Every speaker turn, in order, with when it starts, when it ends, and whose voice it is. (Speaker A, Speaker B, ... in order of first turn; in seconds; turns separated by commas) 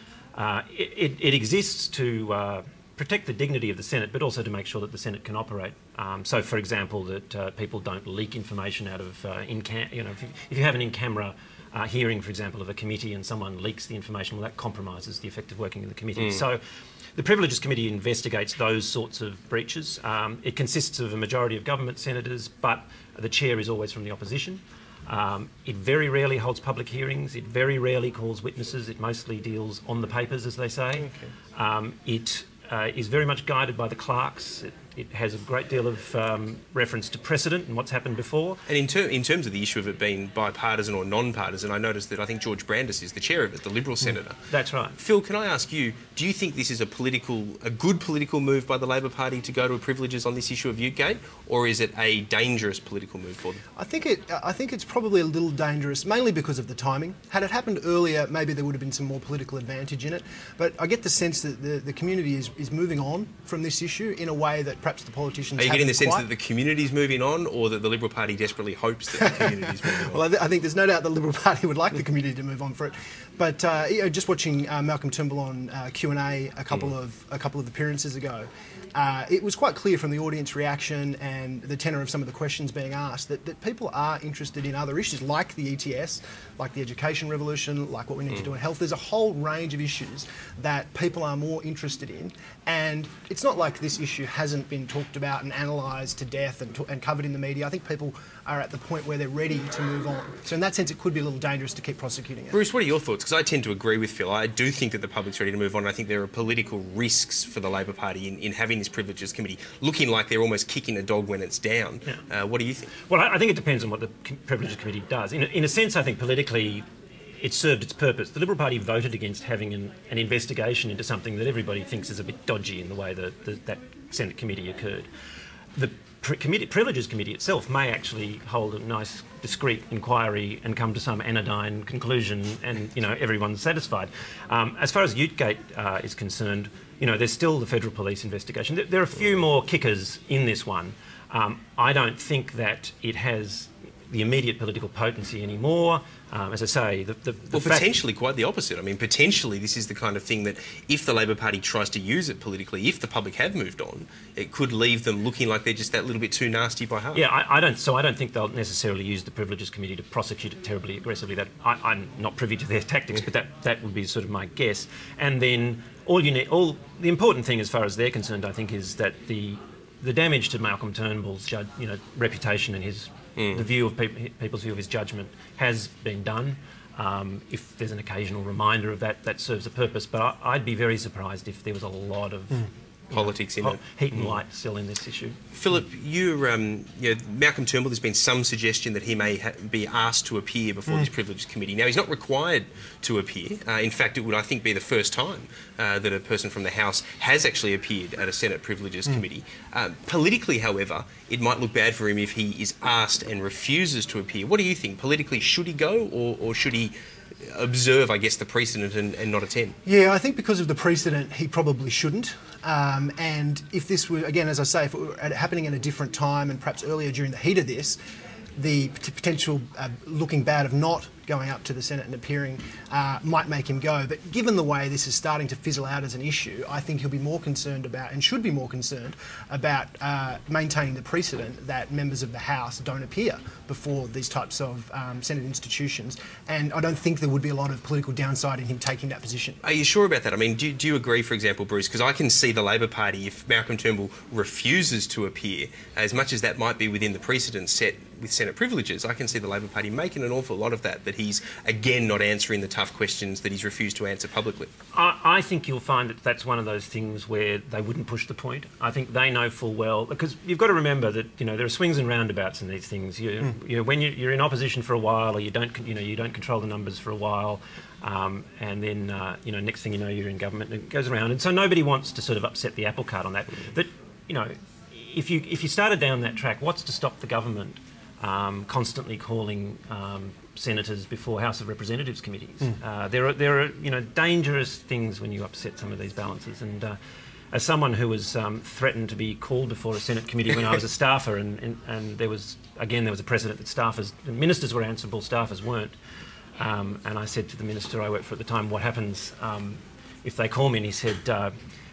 Speaker A: 0.3-16.6, Speaker B: 16.2-16.4, Speaker A: 17.1-38.6, Speaker B: 31.0-31.3, Speaker B: 38.7-44.4, Speaker A: 44.5-45.0, Speaker B: 45.0-53.6, Speaker C: 53.8-66.2, Speaker B: 65.6-70.2, Speaker C: 69.2-102.6, Speaker B: 102.5-112.9, Speaker A: 113.0-116.8, Speaker A: 117.4-125.1, Speaker A: 125.7-147.9, Speaker B: 147.5-157.2, Speaker A: 157.1-185.4, Speaker B: 173.4-173.6, Speaker B: 183.1-184.3, Speaker B: 185.5-209.8, Speaker C: 209.8-218.0, Speaker C: 218.6-239.6, Speaker B: 239.6-254.7, Speaker A: 254.9-287.0, Speaker A: 287.5-295.9, Speaker A: 296.6-301.5